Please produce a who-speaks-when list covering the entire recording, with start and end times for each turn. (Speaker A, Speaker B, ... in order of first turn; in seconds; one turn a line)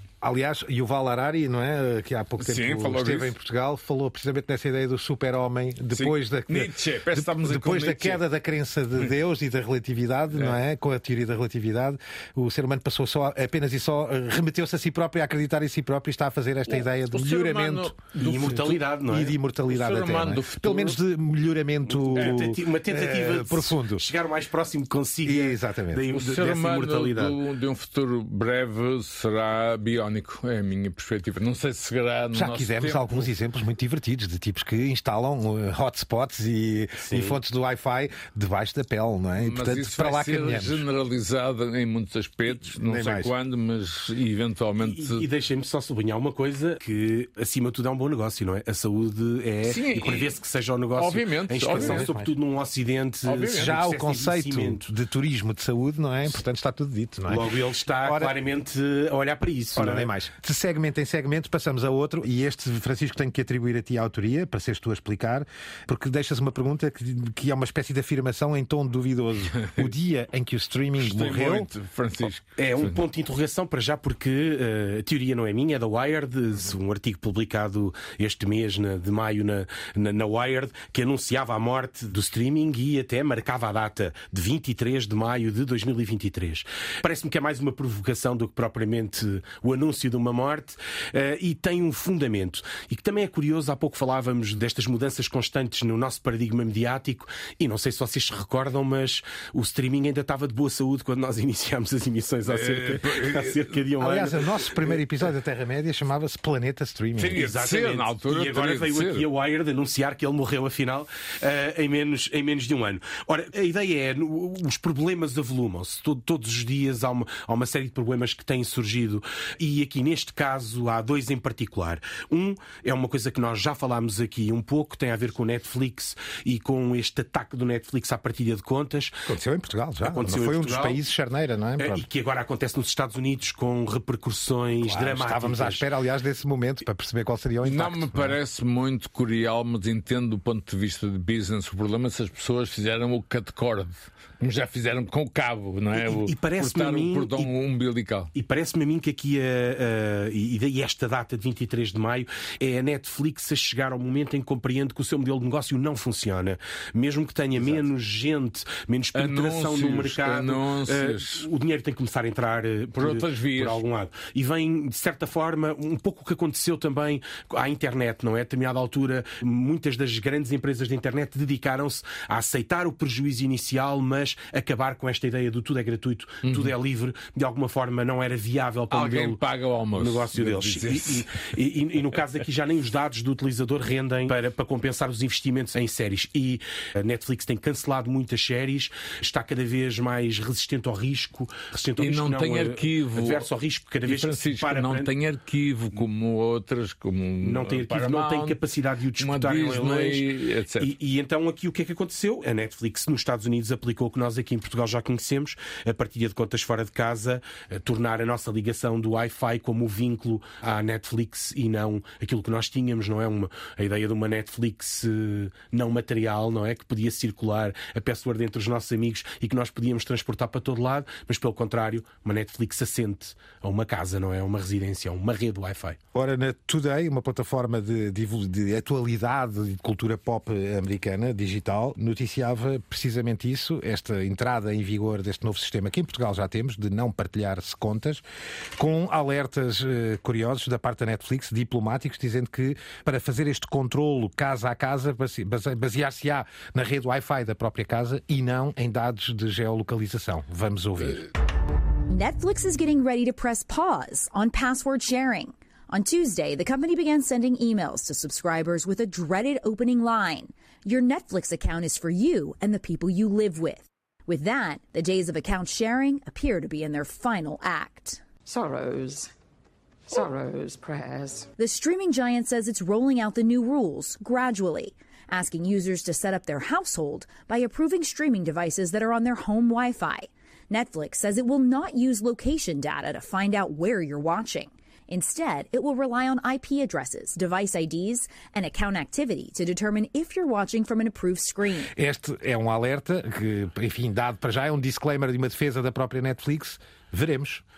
Speaker A: 0.2-24.1
Speaker B: 2.4-3.3
Speaker B: 5.9-8.2
Speaker B: 10.3-10.6
Speaker B: 16.7-18.7
Speaker C: 18.1-19.4
Speaker B: 19.7-21.0
Speaker C: 22.0-27.4
Speaker A: 25.2-26.1
Speaker B: 26.1-33.3
Speaker A: 32.3-40.8
Speaker C: 37.0-37.4
Speaker B: 39.4-45.2
Speaker A: 42.5-43.3
Speaker C: 44.8-54.9
Speaker B: 49.6-50.3
Speaker B: 51.0-52.1
Speaker A: 51.7-52.3
Speaker B: 53.3-53.8
Speaker A: 53.5-57.5
Speaker C: 57.3-60.1
Speaker A: 58.0-58.3
Speaker A: 59.8-71.7
Speaker B: 69.6-69.9
Speaker B: 71.0-73.0
Speaker C: 72.6-105.0
Speaker B: 102.5-103.8
Speaker A: 104.0-107.4
Speaker B: 107.2-109.3
Speaker C: 107.3-129.1
Speaker A: 129.3-132.0
Speaker C: 130.0-131.0
Speaker C: 131.8-135.8
Speaker A: 134.8-138.4
Speaker B: 137.6-148.3
Speaker C: 145.9-147.5
Speaker C: 148.3-179.4
Speaker A: 157.6-157.8
Speaker B: 159.1-161.5
Speaker B: 163.0-163.8
Speaker B: 176.4-176.7
Speaker B: 178.9-181.3
Speaker C: 179.9-195.1
Speaker B: 192.0-193.5
Speaker B: 194.1-198.6
Speaker C: 197.4-226.0
Speaker B: 199.2-200.9
Speaker A: 226.1-238.2
Speaker A: 238.8-251.3
Speaker D: 252.1-268.2
Speaker E: 268.4-269.3
Speaker E: 270.1-271.5
Speaker D: 271.6-291.9
Speaker A: 291.9-297.6